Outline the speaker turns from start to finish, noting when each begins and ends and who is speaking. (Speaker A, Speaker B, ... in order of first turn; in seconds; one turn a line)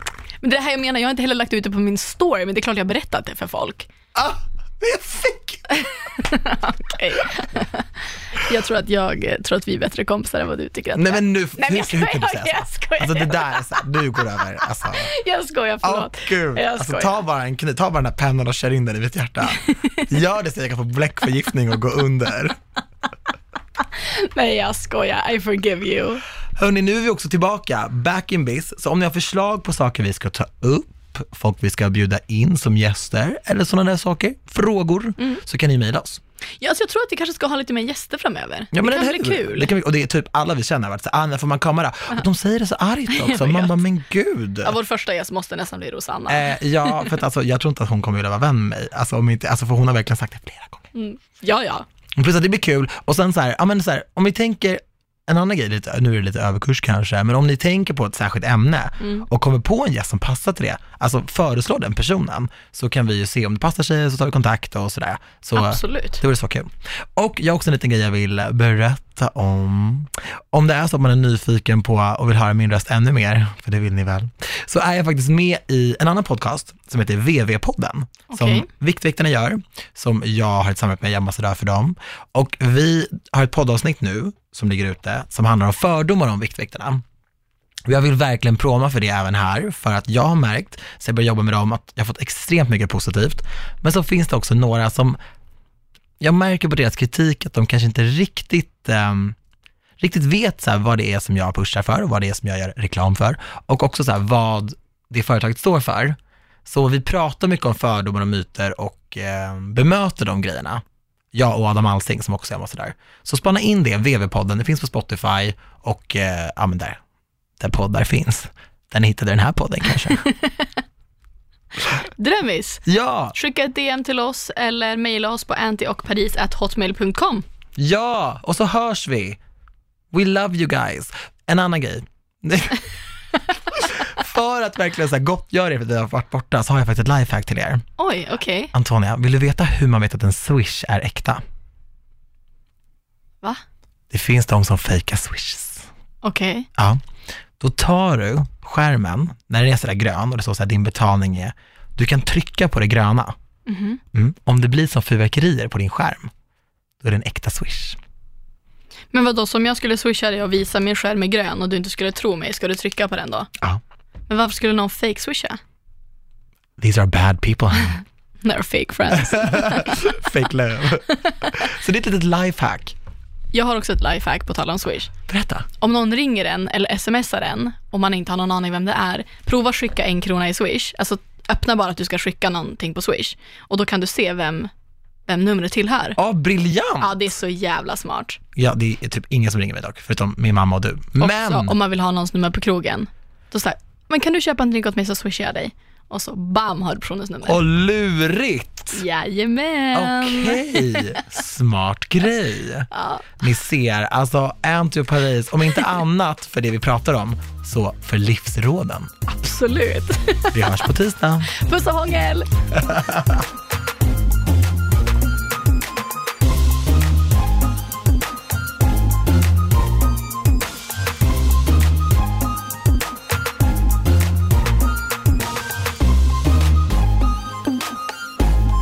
Speaker A: 0.4-3.9
Speaker B: 4.1-5.8
Speaker A: 5.9-17.1
Speaker B: 10.9-15.1
Speaker B: 15.8-22.6
Speaker A: 19.5-20.0
Speaker A: 23.9-26.2
Speaker B: 26.6-36.2
Speaker A: 36.6-39.7
Speaker B: 38.7-44.7
Speaker A: 43.1-43.8
Speaker A: 44.6-47.1
Speaker B: 46.3-50.9
Speaker A: 50.9-51.9
Speaker B: 52.1-87.0
Speaker A: 59.0-59.2
Speaker A: 65.5-66.2
Speaker A: 78.3-78.7
Speaker B: 87.9-95.2
Speaker B: 96.2-99.3
Speaker B: 100.0-110.8
Speaker B: 111.3-117.0
Speaker B: 117.6-120.3
Speaker A: 120.1-120.7
Speaker A: 122.2-127.4
Speaker B: 122.8-123.3
Speaker B: 127.8-129.4
Speaker B: 130.1-132.8
Speaker B: 133.7-137.8
Speaker A: 138.0-138.7
Speaker B: 138.7-141.4
Speaker B: 144.1-145.9
Speaker A: 146.2-146.7
Speaker B: 146.8-147.0
Speaker B: 147.6-153.3
Speaker A: 153.7-154.0
Speaker B: 154.1-156.3
Speaker B: 157.0-158.0
Speaker A: 159.1-163.5
Speaker A: 164.3-165.6
Speaker B: 166.8-168.0
Speaker A: 168.4-170.0
Speaker B: 169.2-172.9
Speaker A: 173.5-175.1
Speaker B: 175.3-175.7
Speaker A: 175.8-184.7
Speaker A: 185.3-186.2
Speaker B: 186.2-187.3
Speaker A: 187.0-188.4
Speaker B: 188.6-191.7
Speaker A: 191.2-197.6
Speaker B: 197.4-199.0
Speaker A: 198.9-201.2
Speaker B: 199.9-209.1
Speaker A: 202.9-203.2
Speaker A: 209.2-210.9
Speaker B: 210.5-211.5
Speaker A: 211.5-212.5
Speaker B: 212.7-213.4